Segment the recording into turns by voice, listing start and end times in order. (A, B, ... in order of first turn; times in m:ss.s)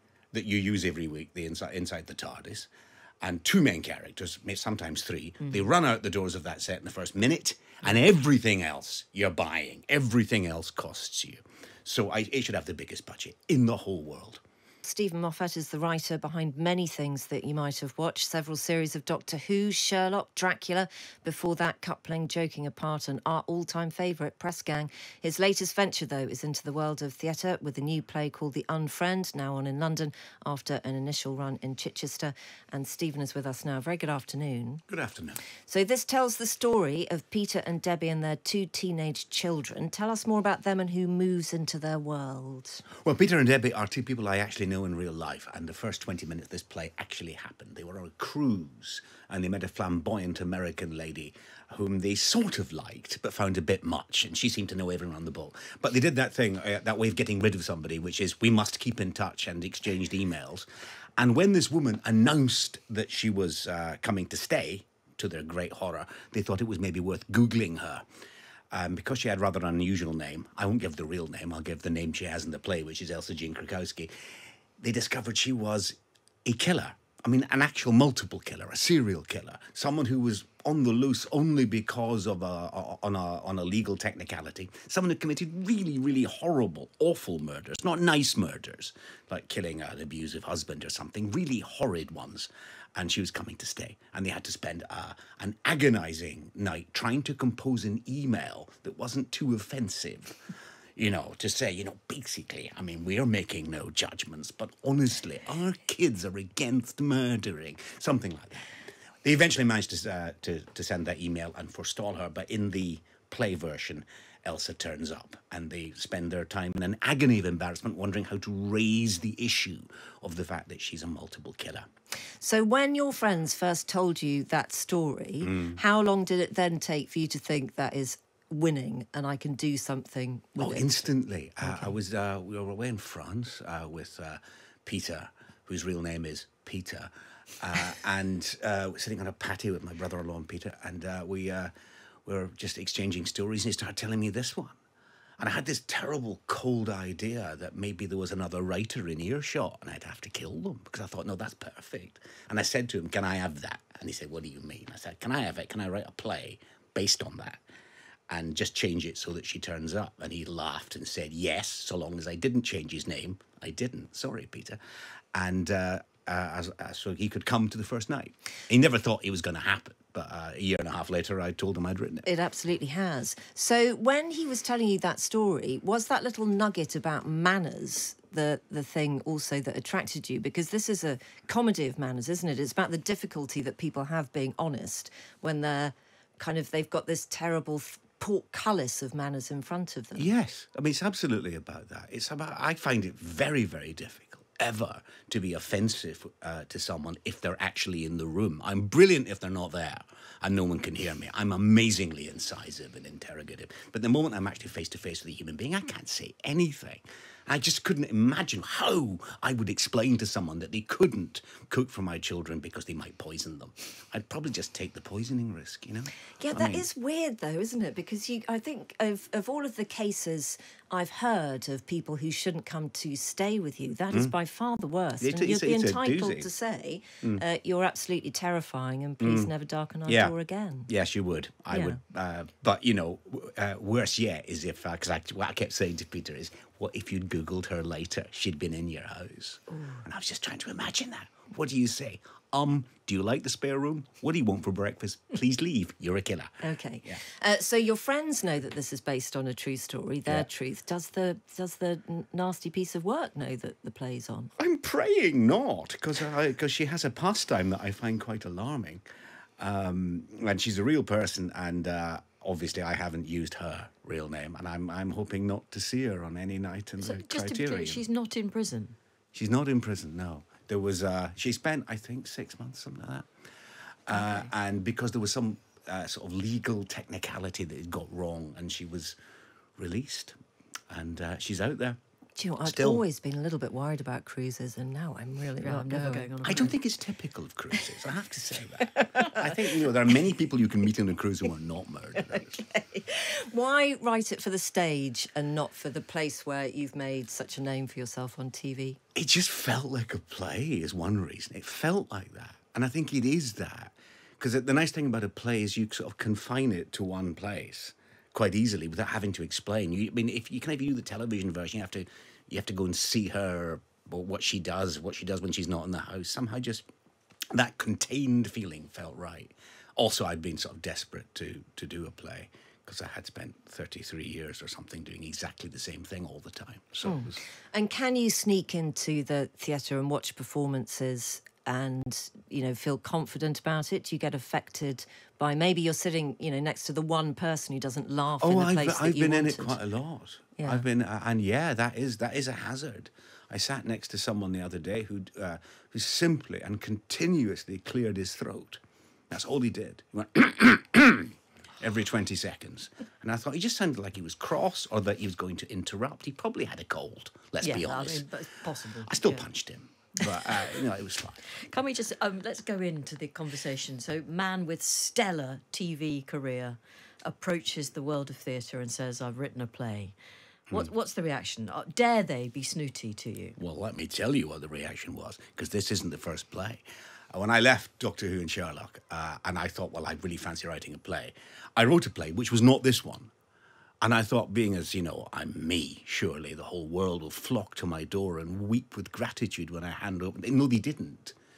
0:00.3-0:02.7 A
0:03.2-0:14.4 A
0:14.8-0:34.8 B
0:34.9-0:35.4 A
0:35.7-0:42.8 B
0:43.0-1:08.0 A
1:08.7-1:14.1 A
1:14.8-1:40.4 A
1:41.0-1:48.7 A
1:49.2-2:01.9 A
2:02.4-2:11.0 B
2:05.4-2:05.8 A
2:10.6-2:21.7 A
2:11.6-2:11.9 B
2:22.2-2:24.8 A
2:25.4-2:37.6 A
2:38.3-2:44.8 A
2:45.3-2:52.3 A
2:52.2-3:10.3 B
3:10.2-3:36.9 A
3:36.4-3:50.9 B
3:45.2-3:46.5 A
3:49.2-3:49.5 A
3:50.1-3:50.3 A
3:50.9-4:07.2 A
3:51.7-3:52.0 B
4:06.6-4:14.5 B
4:14.6-4:19.0 A
4:19.6-4:28.0 A
4:27.0-4:29.0 C
4:29.3-4:33.3 A
4:34.1-4:39.2 A
4:34.1-4:34.5 C
4:39.8-4:40.4 A
4:40.9-4:42.0 A
4:42.4-4:46.4 B
4:42.6-4:43.0 A
4:45.6-4:46.7 C
4:46.4-4:52.6 A
4:52.4-4:59.0 B
4:59.1-5:16.9 A
5:17.5-5:27.4 A
5:27.0-5:39.8 B
5:38.4-5:58.2 A
5:40.6-5:40.8 B
5:57.6-5:59.5 C
5:59.0-6:01.5 A
6:00.4-6:00.8 C
6:01.7-6:10.1 C
6:10.7-6:13.6 C
6:13.6-6:23.3 A
6:24.0-6:31.4 A